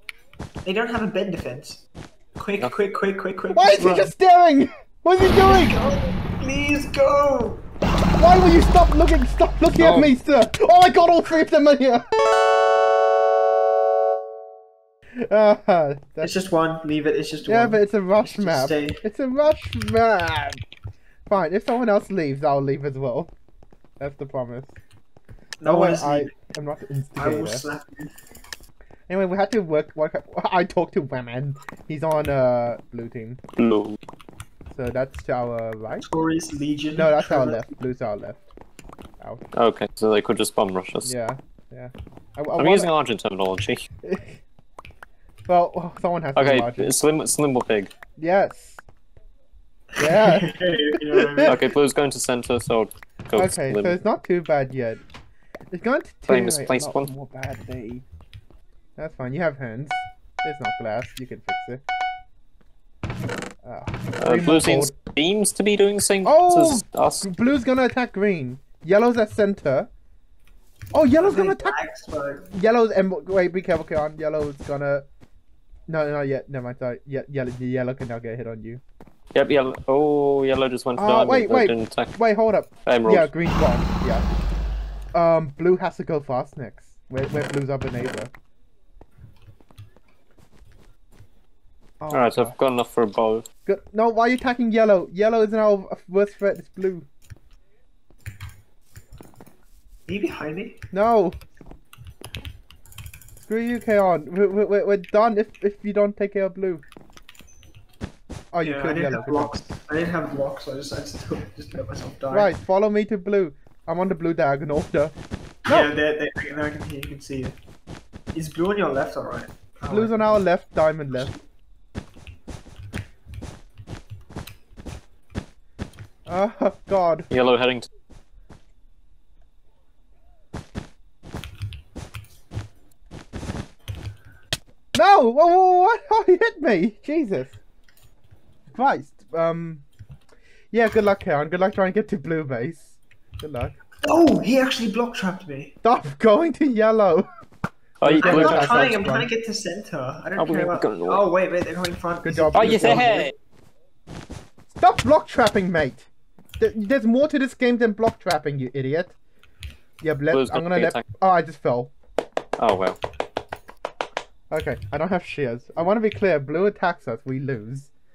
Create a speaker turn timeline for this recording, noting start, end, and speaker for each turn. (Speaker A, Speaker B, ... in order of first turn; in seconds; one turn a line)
Speaker A: 0.6-1.8
Speaker A: 2.4-4.1
Speaker B: 3.5-5.8
Speaker A: 5.4-7.6
Speaker B: 8.2-12.1
Speaker C: 9.8-10.1
Speaker B: 15.2-16.3
Speaker A: 16.2-19.0
Speaker B: 17.5-20.6
Speaker B: 21.3-23.3
Speaker B: 24.0-24.8
Speaker A: 25.6-26.3
Speaker B: 25.6-27.6
Speaker A: 27.2-28.1
Speaker B: 29.1-33.4
Speaker C: 33.6-34.0
Speaker B: 34.7-36.0
Speaker A: 36.0-37.7
Speaker B: 36.9-38.5
Speaker B: 39.2-39.5
Speaker C: 39.5-41.1
Speaker B: 41.0-42.9
Speaker C: 42.6-43.8
Speaker B: 44.0-44.4
Speaker B: 45.5-46.9
Speaker C: 46.4-47.9
Speaker B: 48.2-48.8
Speaker A: 49.9-51.6
Speaker B: 50.0-50.5
Speaker B: 51.1-51.5
Speaker C: 51.4-54.0
Speaker B: 53.3-55.0
Speaker B: 55.7-58.0
Speaker C: 56.3-57.1
Speaker B: 59.0-61.8
Speaker B: 63.6-64.9
Speaker C: 64.2-67.2
Speaker B: 66.2-69.9
Speaker B: 70.9-71.7
Speaker A: 71.2-72.5
Speaker B: 72.5-75.1
Speaker B: 75.9-78.8
Speaker C: 79.3-82.1
Speaker B: 81.0-84.2
Speaker C: 82.8-83.3
Speaker B: 85.1-88.3
Speaker B: 92.0-92.5
Speaker C: 92.1-93.4
Speaker B: 93.6-97.0
Speaker A: 100.1-100.8
Speaker B: 100.9-101.4
Speaker B: 103.4-106.8
Speaker B: 108.5-109.5
Speaker A: 108.6-112.5
Speaker B: 112.3-115.1
Speaker A: 115.7-117.6
Speaker A: 118.3-120.4
Speaker B: 119.9-121.3
Speaker B: 126.3-127.3
Speaker C: 127.3-127.9
Speaker B: 134.9-137.6
Speaker B: 138.7-139.8
Speaker B: 140.7-143.8
Speaker A: 144.0-145.8
Speaker B: 145.8-147.3
Speaker C: 148.0-148.9
Speaker B: 148.0-149.3
Speaker A: 148.2-153.2
Speaker C: 150.4-151.2
Speaker B: 152.2-153.3
Speaker C: 152.5-153.3
Speaker B: 154.8-156.1
Speaker B: 156.6-159.2
Speaker B: 160.0-161.9
Speaker C: 160.3-161.0
Speaker C: 162.6-163.0
Speaker B: 164.5-167.9